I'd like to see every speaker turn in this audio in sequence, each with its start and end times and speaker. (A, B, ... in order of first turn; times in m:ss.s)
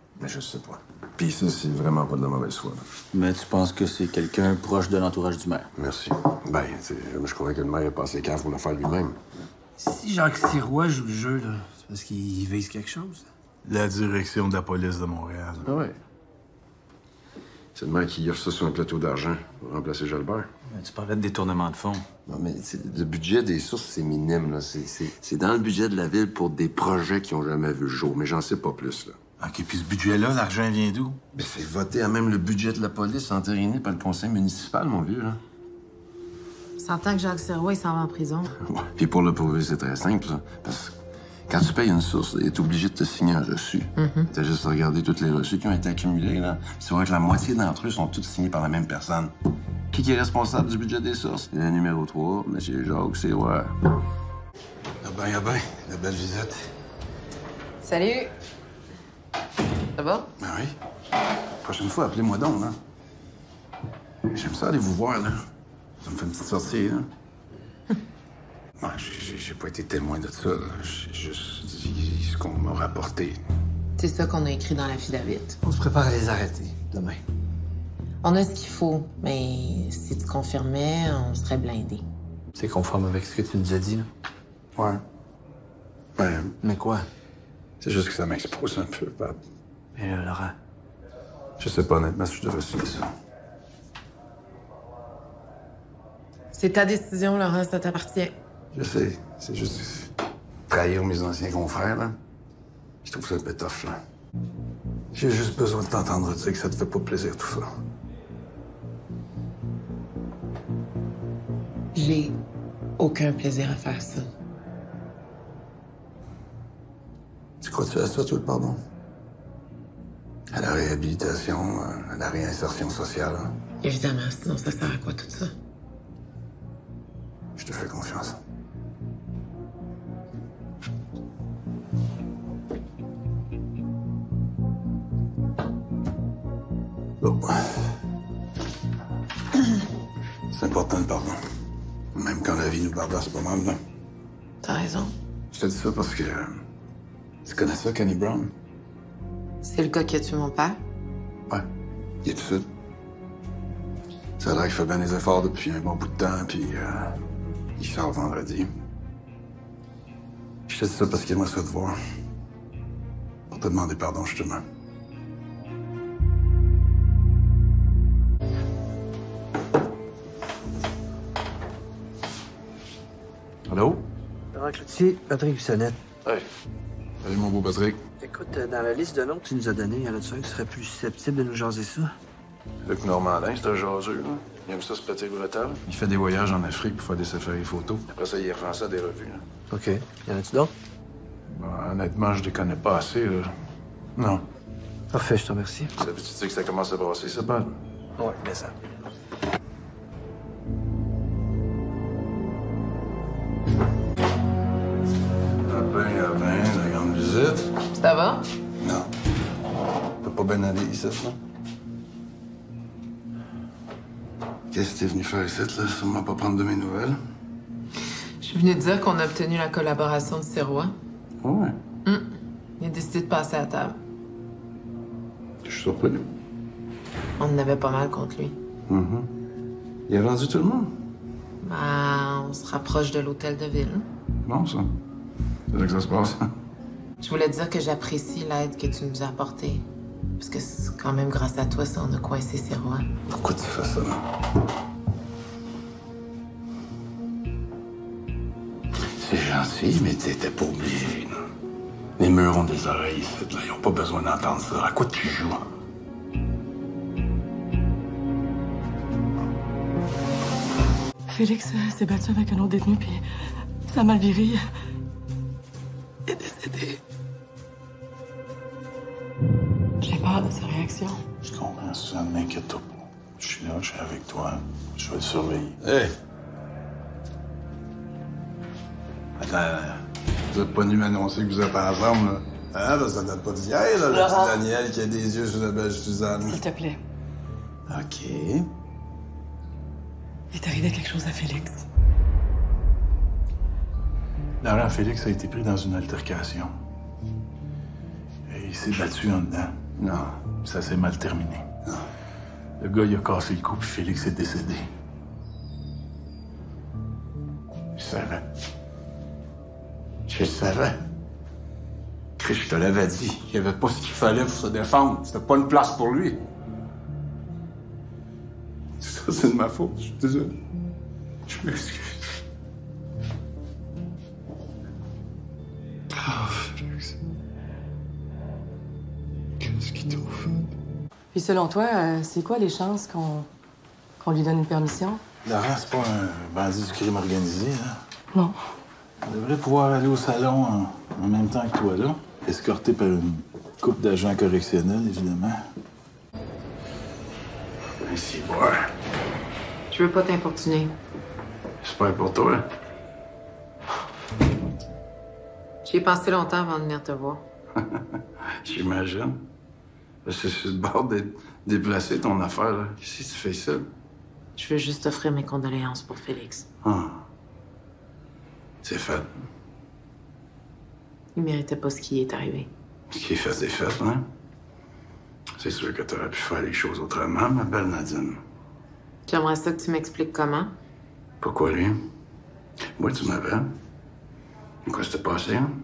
0:00.2-0:02.8 A
0:03.1-0:05.7 B
0:05.7-0:09.2 A
0:09.8-0:13.2 C
0:13.6-0:15.7 D
0:15.6-0:16.0 A
0:17.7-0:20.5 A
0:20.7-0:22.0 B
0:22.2-0:29.2 A
0:29.4-0:31.2 D
0:31.3-0:35.4 A
0:36.8-0:38.5 E
0:38.6-0:41.0 A
0:41.5-0:49.3 A
0:44.0-0:44.3 E
0:49.9-0:53.8 A
0:55.0-0:56.7 A
0:57.8-0:58.3 E
1:00.0-1:00.3 E
1:00.4-1:00.8 A
1:01.6-1:02.8 A
1:04.3-1:05.4 A
1:06.0-1:07.1 A
1:08.8-1:13.4 A
1:14.0-1:15.6 E
1:15.6-1:17.2 C
1:18.2-1:22.0 E
1:22.6-1:24.1 C
1:24.8-1:25.0 A
1:26.2-1:26.5 A
1:26.6-1:27.1 C
1:27.8-1:29.4 A
1:29.9-1:30.5 C
1:31.6-1:33.1 A
1:36.5-1:38.3 E
1:38.7-1:40.1 A
1:40.7-1:42.2 A
1:43.0-1:44.0 A
1:45.1-1:47.7 A
1:51.9-1:52.4 E
1:53.0-1:54.3 E
1:57.6-1:58.8 A
2:00.5-2:03.5 A
2:03.8-2:05.5 E
2:07.6-2:08.4 A
2:17.2-2:17.9 A
2:20.5-2:21.4 A
2:22.1-2:23.8 A
2:24.6-2:25.1 E
2:25.5-2:26.6 A
2:27.4-2:28.5 A
2:29.6-2:30.8 E
2:32.2-2:32.6 A
2:34.4-2:37.2 A
2:37.8-2:38.7 A
2:40.7-2:42.0 A
2:43.5-2:44.6 A
2:53.7-2:54.0 A
2:54.5-2:56.0 C
2:57.2-2:58.0 A
2:58.2-3:02.1 C
3:02.8-3:09.4 A
3:09.7-3:10.7 C
3:11.5-3:13.5 A
3:14.2-3:14.4 A
3:15.1-3:15.9 C
3:16.0-3:17.7 A
3:18.2-3:18.7 C
3:25.6-3:27.7 A
3:28.0-3:28.4 E
3:28.8-3:29.1 A
3:30.2-3:31.4 A
3:34.7-3:37.2 A
3:38.4-3:40.9 E
3:41.4-3:41.8 A
3:42.0-3:44.0 E
3:45.6-3:46.2 A
3:47.4-3:48.6 E
3:48.9-3:49.3 A
3:50.1-3:50.9 A
3:51.6-3:54.1 E
3:54.4-3:54.9 A
3:55.7-3:56.4 A
3:57.2-3:59.8 E
4:00.4-4:03.0 E
4:03.2-4:04.2 A
4:09.2-4:11.4 A
4:12.2-4:15.6 A
4:21.3-4:23.2 F
4:23.9-4:24.6 F
4:26.3-4:27.0 F
4:30.0-4:31.2 F
4:31.4-4:35.8 D
4:35.8-4:36.2 A
4:39.4-4:39.9 A
4:40.5-4:46.6 A
4:44.1-4:44.6 F
4:46.4-4:47.0 F
4:47.9-4:48.6 A
4:50.5-4:51.8 F
4:54.6-4:56.7 D
4:58.5-4:59.7 D
5:00.0-5:00.4 A
5:00.6-5:01.7 D
5:02.8-5:04.8 D
5:08.0-5:08.4 A
5:10.3-5:11.0 A
5:12.4-5:16.4 A
5:19.0-5:20.6 A
5:21.5-5:22.1 A
5:26.2-5:27.1 A
5:29.6-5:30.4 A
5:31.3-5:33.5 F
5:34.2-5:35.2 F
5:35.4-5:38.0 D
5:39.2-5:45.6 D
5:48.0-5:48.9 A
5:49.9-5:51.0 E
5:51.8-5:52.6 A
5:55.8-5:57.4 E
5:58.6-5:59.4 A
6:00.2-6:03.9 A
6:04.6-6:06.6 E
6:06.8-6:07.2 A
6:08.8-6:09.3 A
6:11.3-6:12.7 E
6:13.1-6:14.2 A
6:15.6-6:18.4 A
6:19.3-6:20.7 E
6:21.4-6:22.0 A
6:23.0-6:23.7 A
6:24.8-6:25.7 A